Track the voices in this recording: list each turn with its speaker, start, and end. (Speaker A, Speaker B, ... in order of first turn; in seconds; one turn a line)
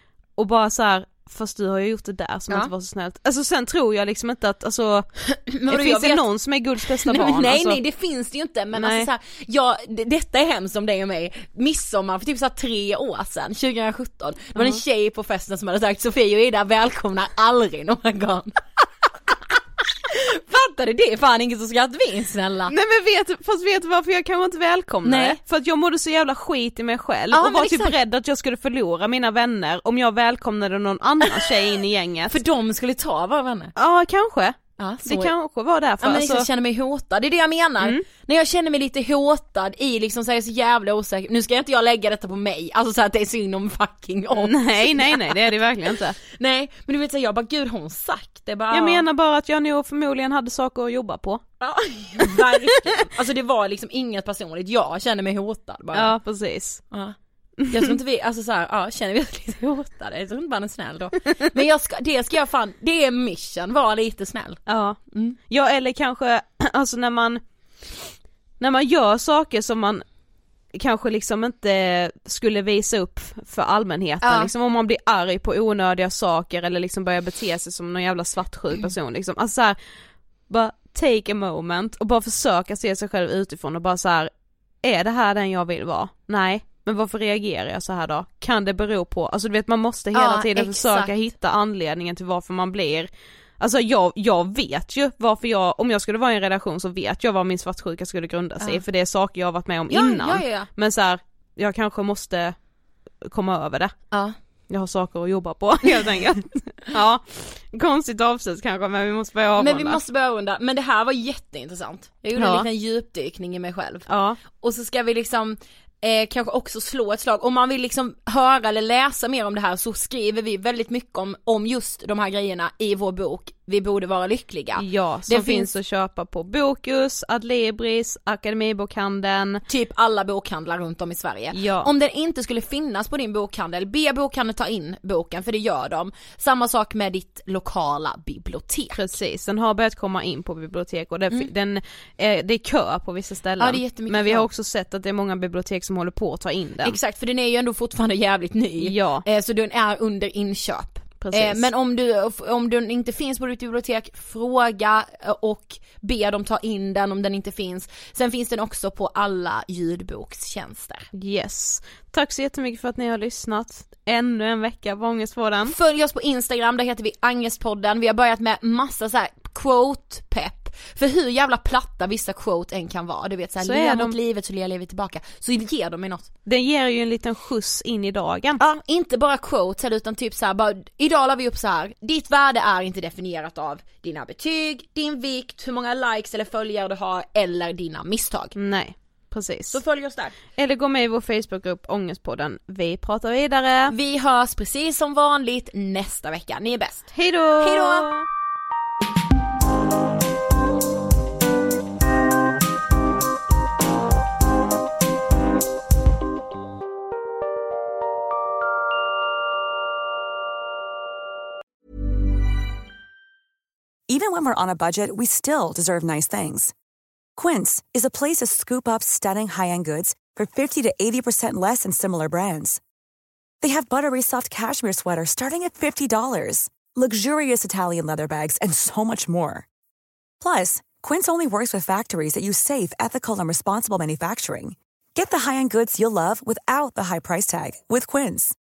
Speaker A: 0.4-5.1
Speaker B: 5.3-6.2
Speaker A: 5.7-7.8
Speaker B: 7.0-18.6
Speaker A: 8.8-9.1
Speaker A: 14.6-14.8
Speaker B: 20.1-22.7
Speaker A: 22.7-32.4
Speaker B: 25.1-25.4
Speaker B: 27.3-28.0
Speaker B: 32.3-33.7
Speaker A: 33.8-36.5
Speaker B: 34.8-35.3
Speaker B: 36.0-49.0
Speaker A: 44.4-46.2
Speaker A: 48.7-51.4
Speaker B: 51.6-56.1
Speaker A: 52.3-52.8
Speaker A: 55.9-56.8
Speaker B: 57.7-64.6
Speaker A: 64.7-67.4
Speaker B: 65.1-65.4
Speaker A: 68.6-70.0
Speaker A: 70.8-79.8
Speaker B: 74.2-74.5
Speaker A: 80.5-84.3
Speaker A: 84.8-102.6
Speaker B: 90.1-91.2
Speaker B: 99.9-100.7
Speaker A: 103.3-104.0
Speaker A: 104.7-110.0
Speaker B: 109.6-125.7
Speaker A: 112.4-112.7
Speaker A: 114.1-114.4
Speaker A: 124.8-129.6
Speaker B: 129.7-139.1
Speaker A: 131.5-131.9
Speaker A: 138.9-147.0
Speaker B: 143.6-144.5
Speaker B: 146.8-161.1
Speaker A: 148.8-149.3
Speaker A: 151.2-151.7
Speaker A: 161.1-165.8
Speaker B: 165.6-176.3
Speaker A: 173.6-174.2
Speaker A: 176.5-178.6
Speaker B: 178.6-188.6
Speaker A: 188.6-189.8
Speaker B: 189.7-190.3
Speaker A: 190.6-193.9
Speaker B: 193.9-198.1
Speaker A: 197.1-198.3
Speaker C: 214.1-216.7
Speaker C: 217.4-222.8
Speaker C: 223.6-229.7
Speaker C: 230.4-238.6